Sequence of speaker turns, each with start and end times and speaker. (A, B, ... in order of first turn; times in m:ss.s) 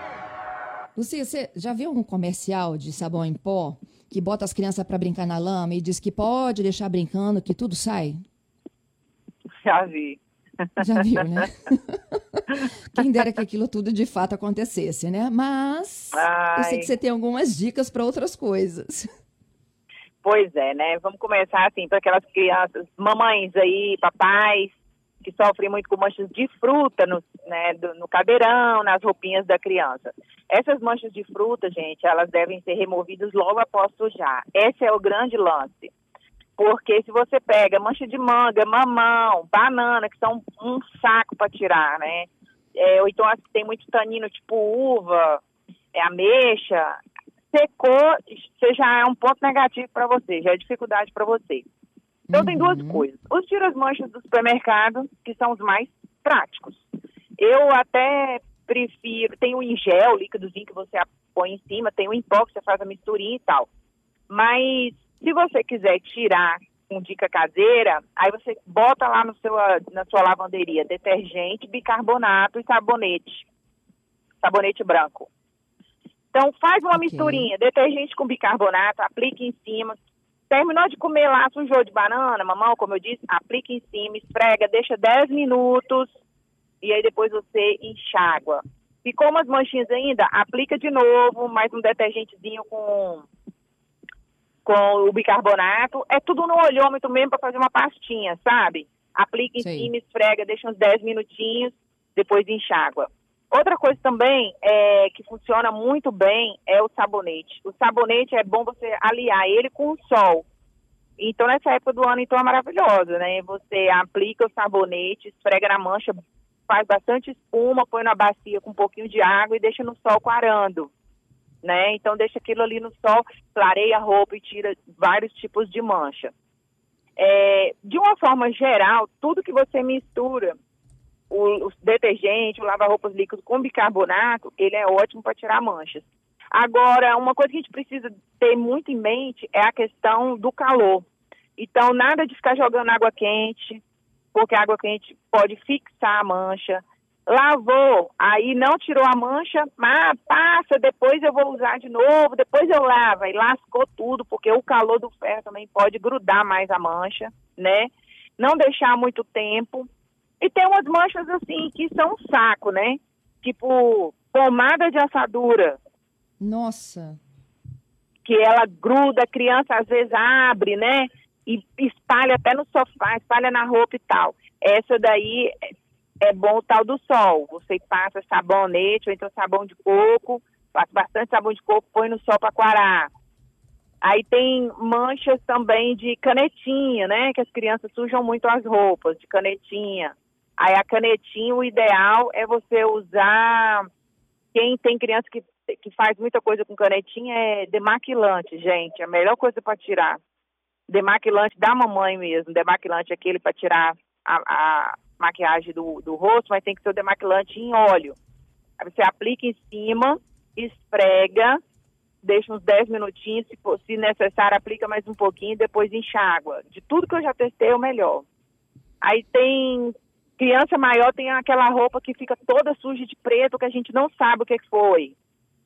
0:01.0-0:08.2 A
0:09.6-0:10.9 B
0:10.8-0:19.1 A
0:16.1-0:16.9 B
0:20.2-0:35.9 B
0:36.6-0:45.4 B
0:45.9-0:47.0 B
0:47.5-0:51.7 B
0:52.3-0:53.1 A
0:52.3-0:56.8 B
0:57.4-1:03.7 B
1:04.3-1:13.5 B
1:14.4-1:15.3 B
1:16.3-1:20.0 B
1:16.9-1:17.5 A
1:20.5-1:26.1 B
1:26.8-1:33.3 B
1:34.6-1:50.5 B
1:39.6-1:39.9 A
1:51.2-1:56.2 B
1:56.7-2:00.9 B
2:01.6-2:06.3 B
2:07.2-2:10.6 B
2:11.3-2:23.8 B
2:24.3-2:39.9 B
2:40.4-2:45.8 B
2:46.4-2:47.2 A
2:48.2-3:03.1 B
3:04.0-3:13.9 B
3:14.5-3:20.2 B
3:20.9-3:28.2 B
3:28.8-3:31.6 B
3:32.2-3:38.3 B
3:39.0-3:45.2 B